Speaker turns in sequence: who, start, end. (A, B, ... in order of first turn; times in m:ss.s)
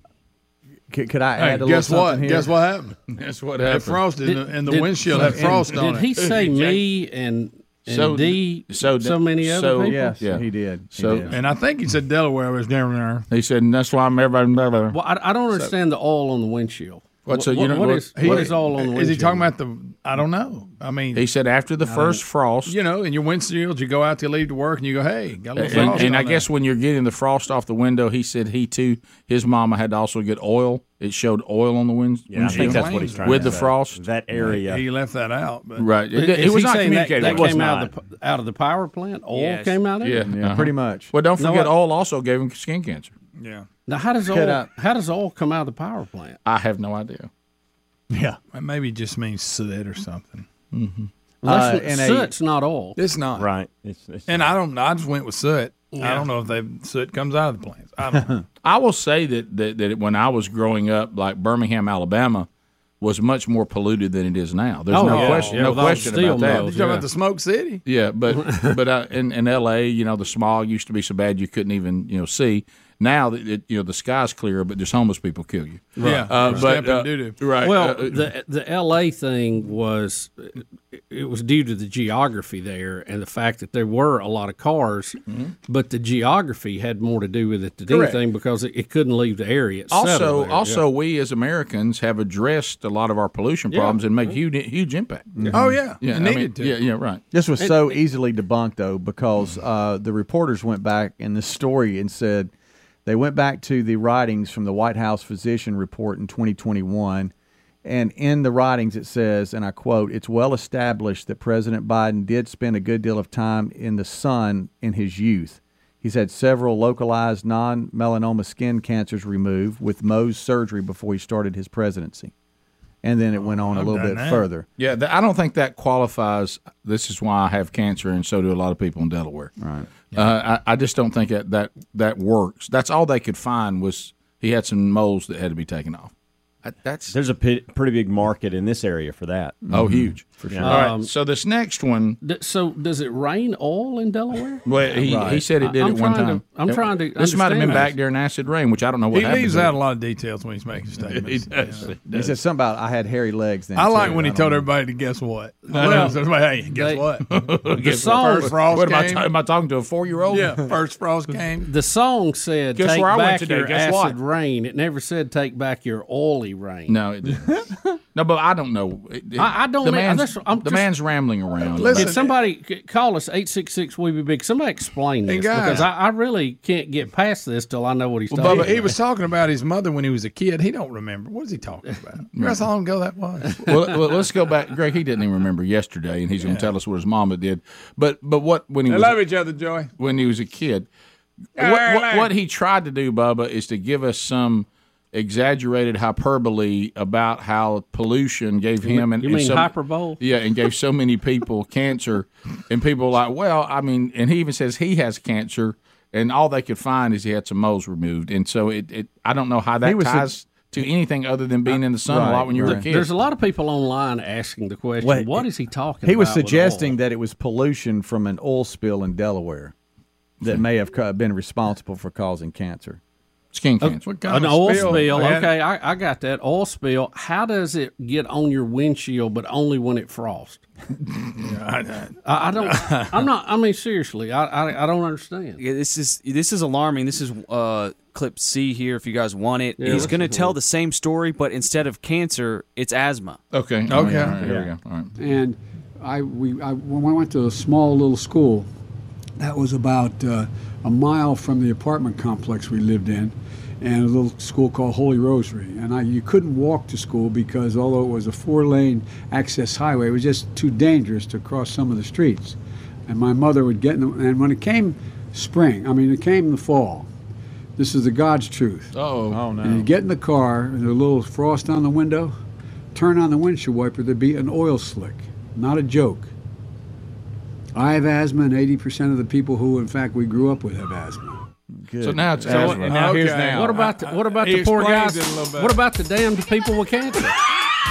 0:00.9-0:02.5 A
0:01.4-0:03.0 B
0:03.1-0:04.0 C
0:03.7-0:06.1 B
0:04.2-0:10.2 D
0:04.7-0:05.6 C
0:05.1-0:05.7 A
0:06.2-0:06.8 C
0:07.9-0:11.3 C
0:09.9-0:11.3 A
0:11.3-0:13.3 B
0:13.3-0:15.0 C
0:14.9-0:19.5 D
0:17.3-0:18.6 C
0:18.1-0:21.3 B
0:21.1-0:22.8 C
0:21.8-0:22.2 D
0:22.6-0:26.5 B
0:25.6-0:34.0 C
0:25.7-0:26.2 D
0:32.3-0:34.8 E
0:32.4-0:33.6 B
0:34.4-0:35.9 B
0:35.8-0:37.5 C
0:36.1-0:40.2 D
0:37.2-0:37.9 E
0:39.3-0:39.8 F
0:40.0-0:43.1 C
0:40.2-0:41.1 A
0:41.4-0:41.7 D
0:43.4-0:43.7 B
0:43.9-0:46.4 D
0:44.3-0:44.7 A
0:46.4-0:47.3 C
0:48.5-0:50.5 B
0:50.7-0:51.1 C
0:51.4-0:52.3 A
0:51.5-0:53.0 D
0:53.0-0:53.5 B
0:53.4-0:54.6 E
0:54.3-0:58.4 B
0:56.0-0:56.3 D
0:58.6-1:02.5 C
1:03.0-1:07.0 C
1:04.9-1:07.1 D
1:05.0-1:07.8 B
1:07.8-1:18.2 C
1:08.3-1:08.8 D
1:16.0-1:16.7 D
1:16.0-1:17.4 B
1:17.6-1:30.8 D
1:25.3-1:25.6 C
1:27.9-1:28.2 C
1:29.9-1:35.3 C
1:33.7-1:34.4 D
1:35.4-1:35.8 A
1:35.5-1:36.8 B
1:35.9-1:37.2 C
1:37.3-1:42.5 A
1:37.6-1:38.0 D
1:43.1-1:47.3 A
1:47.8-2:02.3 A
2:03.0-2:04.7 A
2:03.6-2:04.4 B
2:04.8-2:09.5 C
2:09.6-2:09.9 A
2:10.1-2:16.1 C
2:16.6-2:17.2 C
2:17.1-2:19.6 E
2:19.7-2:20.5 A
2:19.7-2:22.2 C
2:20.5-2:20.8 E
2:20.6-2:21.1 D
2:22.2-2:28.0 D
2:24.6-2:29.7 C
2:25.0-2:25.5 A
2:29.1-2:31.9 B
2:31.0-2:32.4 C
2:32.1-2:34.7 A
2:33.8-2:37.3 B
2:35.7-2:36.2 D
2:35.8-2:36.1 C
2:36.7-2:37.0 D
2:37.2-2:40.6 C
2:37.7-2:38.6 D
2:38.0-2:39.3 B
2:40.3-2:41.7 B
2:41.7-2:47.0 D
2:42.8-2:44.2 C
2:46.9-2:52.2 C
2:49.4-2:50.9 D
2:51.7-2:59.0 D
2:51.7-2:52.3 B
2:55.3-2:55.9 B
2:58.3-2:58.9 C
2:58.4-3:03.6 B
3:02.3-3:02.7 C
3:03.5-3:03.8 D
3:03.6-3:09.2 C
3:08.9-3:09.9 B
3:10.0-3:10.9 C
3:11.6-3:12.3 B
3:11.6-3:33.1 C
3:18.8-3:20.2 D
3:29.8-3:30.3 A
3:31.7-3:32.9 A
3:32.6-3:37.0 D
3:35.0-3:35.4 A
3:36.0-3:39.7 A
3:40.4-3:43.0 A
3:43.5-3:45.1 C
3:43.8-3:50.6 D
3:44.0-3:45.5 B
3:51.4-3:53.3 B
3:52.2-3:55.6 D
3:55.6-4:03.4 F
3:59.8-4:00.6 D
4:03.5-4:05.1 C
4:03.9-4:04.4 B
4:05.2-4:08.7 G
4:09.4-4:22.6 G
4:23.1-4:27.1 G
4:27.8-4:28.9 G
4:28.9-4:29.4 C
4:29.3-4:29.9 A
4:29.6-4:32.4 G
4:33.0-4:36.3 G
4:37.8-4:41.4 G
4:41.7-4:43.9 A
4:42.0-4:43.1 C
4:42.5-4:47.4 D
4:42.7-4:45.8 B